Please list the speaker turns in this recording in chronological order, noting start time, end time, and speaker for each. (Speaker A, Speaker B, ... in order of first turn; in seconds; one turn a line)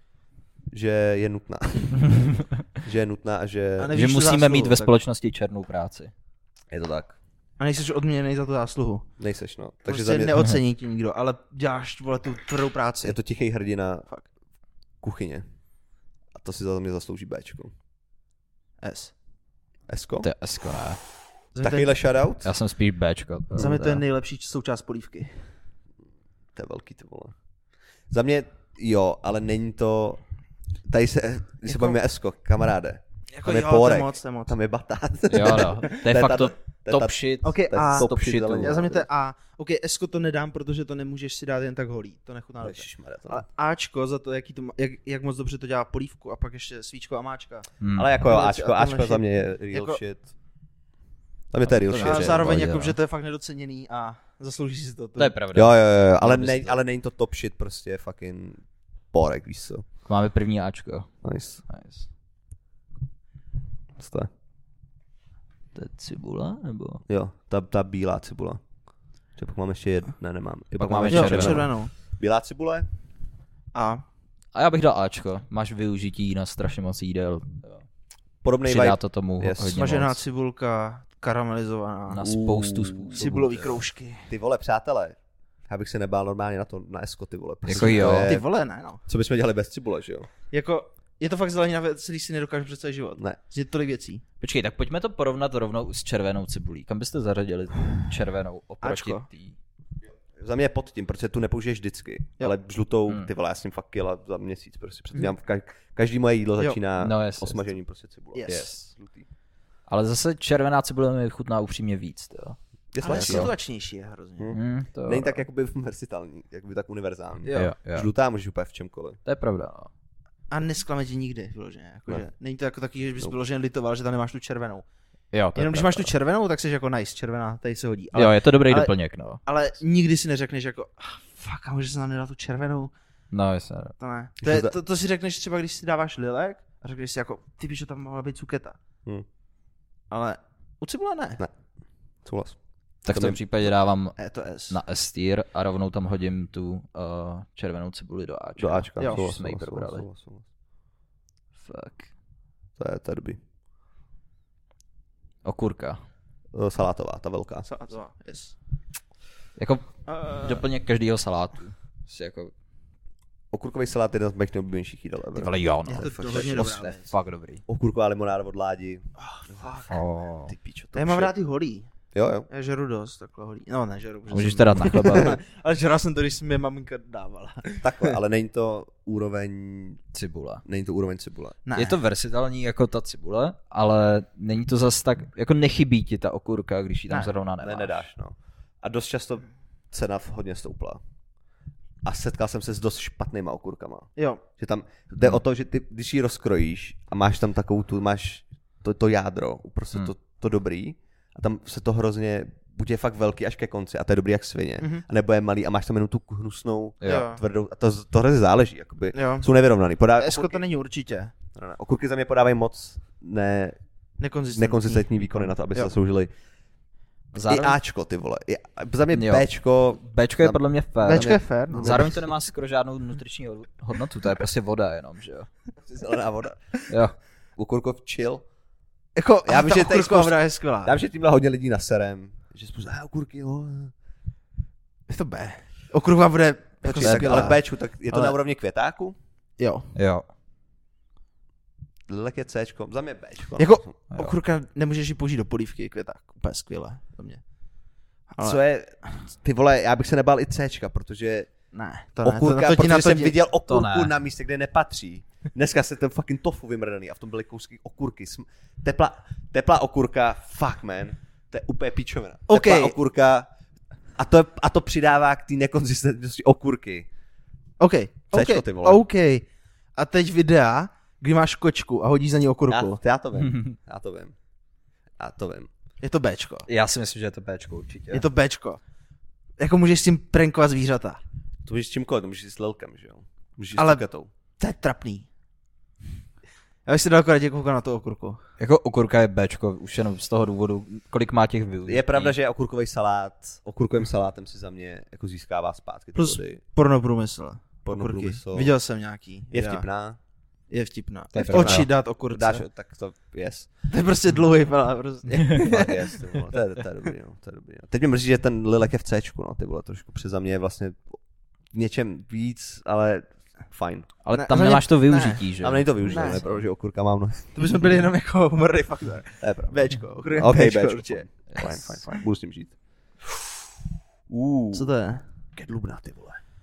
Speaker A: 0.7-3.9
Speaker B: 3.8-4.9
Speaker C: 3.9-6.1
Speaker A: 6.7-7.2
Speaker B: 7.6-9.1
Speaker A: 9.2-10.4
Speaker B: 9.9-13.2
Speaker A: 13.0-14.1
Speaker A: 15.0-15.4
Speaker A: 16.4-17.7
Speaker B: 18.8-19.1
Speaker A: 19.9-20.3
Speaker C: 20.2-21.0
Speaker B: 21.5-21.9
Speaker A: 21.6-22.5
Speaker C: 22.4-24.0
Speaker B: 23.6-25.5
Speaker A: 26.5-27.4
Speaker A: 28.1-30.2
Speaker A: 30.9-39.0
Speaker B: 31.6-32.0
Speaker B: 33.3-34.5
Speaker C: 35.3-38.9
Speaker B: 37.4-47.7
Speaker A: 42.6-43.4
Speaker C: 47.8-48.1
Speaker A: 47.9-50.3
Speaker B: 48.2-50.0
Speaker A: 51.5-52.6
Speaker C: 51.6-53.0
Speaker B: 52.0-55.4
Speaker C: 55.2-56.8
Speaker A: 55.5-59.9
Speaker C: 60.0-62.1
Speaker A: 61.2-61.6
Speaker A: 64.0-64.3
Speaker C: 65.8-67.0
Speaker A: 67.1-68.6
Speaker A: 69.4-72.9
Speaker C: 70.8-71.7
Speaker B: 71.1-71.9
Speaker B: 73.7-74.0
Speaker C: 74.5-77.8
Speaker A: 78.4-79.9
Speaker C: 78.6-80.2
Speaker B: 79.7-82.3
Speaker C: 82.1-83.3
Speaker A: 82.2-83.7
Speaker B: 83.2-84.3
Speaker A: 84.3-88.5
Speaker C: 87.7-88.3
Speaker B: 87.8-89.0
Speaker A: 89.1-90.3
Speaker B: 90.5-94.2
Speaker C: 94.4-99.5
Speaker B: 98.8-99.2
Speaker A: 100.4-109.3
Speaker C: 107.0-107.7
Speaker B: 108.3-108.7
Speaker C: 108.5-108.9
Speaker C: 109.9-113.5
Speaker A: 112.9-113.5
Speaker B: 113.0-114.6
Speaker A: 114.4-119.2
Speaker C: 114.5-115.4
Speaker B: 117.4-117.7
Speaker C: 117.5-118.1
Speaker C: 119.2-119.9
Speaker B: 120.5-124.8
Speaker C: 125.3-126.1
Speaker B: 125.5-128.9
Speaker C: 128.1-129.4
Speaker B: 129.4-132.9
Speaker C: 133.3-133.9
Speaker B: 134.0-138.8
Speaker A: 134.4-134.8
Speaker B: 140.1-141.4
Speaker A: 142.2-143.4
Speaker C: 143.1-144.2
Speaker B: 144.2-144.8
Speaker C: 144.7-150.1
Speaker A: 148.6-150.4
Speaker B: 149.0-149.2
Speaker C: 151.6-152.1
Speaker A: 152.8-153.4
Speaker C: 155.4-156.0
Speaker A: 156.5-157.7
Speaker B: 157.7-158.6
Speaker C: 159.6-162.5
Speaker B: 160.1-160.6
Speaker A: 163.5-166.8
Speaker C: 165.4-167.6
Speaker B: 165.9-167.1
Speaker A: 167.7-169.1
Speaker B: 169.2-169.9
Speaker C: 169.9-170.5
Speaker A: 170.5-171.3
Speaker B: 170.9-171.9
Speaker A: 172.1-172.5
Speaker B: 172.5-178.2
Speaker C: 174.3-175.4
Speaker A: 177.8-180.0
Speaker C: 180.1-180.6
Speaker A: 180.6-181.6
Speaker B: 181.6-182.0
Speaker C: 181.8-188.1
Speaker A: 187.6-191.0
Speaker A: 192.1-210.6
Speaker B: 194.2-194.4
Speaker B: 204.8-205.1
Speaker C: 207.0-207.3
Speaker B: 207.0-207.4
Speaker B: 209.1-209.5
Speaker B: 210.2-211.3
Speaker A: 211.6-213.8
Speaker B: 214.2-215.9
Speaker A: 214.6-216.3
Speaker C: 217.3-217.8
Speaker A: 217.4-220.6
Speaker C: 219.1-225.5
Speaker B: 221.0-222.1
Speaker A: 221.7-222.2
Speaker A: 225.9-226.8
Speaker C: 226.9-227.1
Speaker A: 227.6-228.4
Speaker B: 229.1-231.0
Speaker A: 229.4-233.9
Speaker B: 235.1-238.4
Speaker A: 236.8-239.2
Speaker B: 239.6-239.9
Speaker C: 239.9-240.3
Speaker A: 242.1-243.9
Speaker B: 243.6-247.4
Speaker B: 248.3-248.6
Speaker A: 248.4-251.5
Speaker B: 251.7-253.3
Speaker A: 252.2-263.5
Speaker C: 253.7-254.1
Speaker B: 262.5-262.9
Speaker A: 264.1-267.1
Speaker B: 267.8-273.0
Speaker A: 268.3-269.0
Speaker A: 272.7-274.4
Speaker C: 273.4-273.7
Speaker A: 275.2-275.7
Speaker B: 276.0-276.7
Speaker C: 276.7-278.3
Speaker B: 278.1-278.8
Speaker B: 279.6-281.2
Speaker A: 281.6-284.3
Speaker B: 283.8-284.0
Speaker B: 284.6-285.3
Speaker B: 286.9-288.4
Speaker C: 288.6-292.3
Speaker A: 291.9-296.6
Speaker B: 296.1-299.9
Speaker A: 297.9-298.7
Speaker A: 299.5-300.2
Speaker B: 300.7-302.6
Speaker C: 301.3-301.9
Speaker A: 301.4-303.7
Speaker B: 303.9-306.3
Speaker A: 305.6-311.2
Speaker A: 311.7-314.1
Speaker C: 314.2-316.4
Speaker B: 314.3-315.5
Speaker A: 315.6-317.6
Speaker B: 316.1-316.4
Speaker B: 317.6-321.7
Speaker A: 319.4-322.8
Speaker A: 324.3-324.9
Speaker B: 324.7-325.2
Speaker A: 325.6-326.4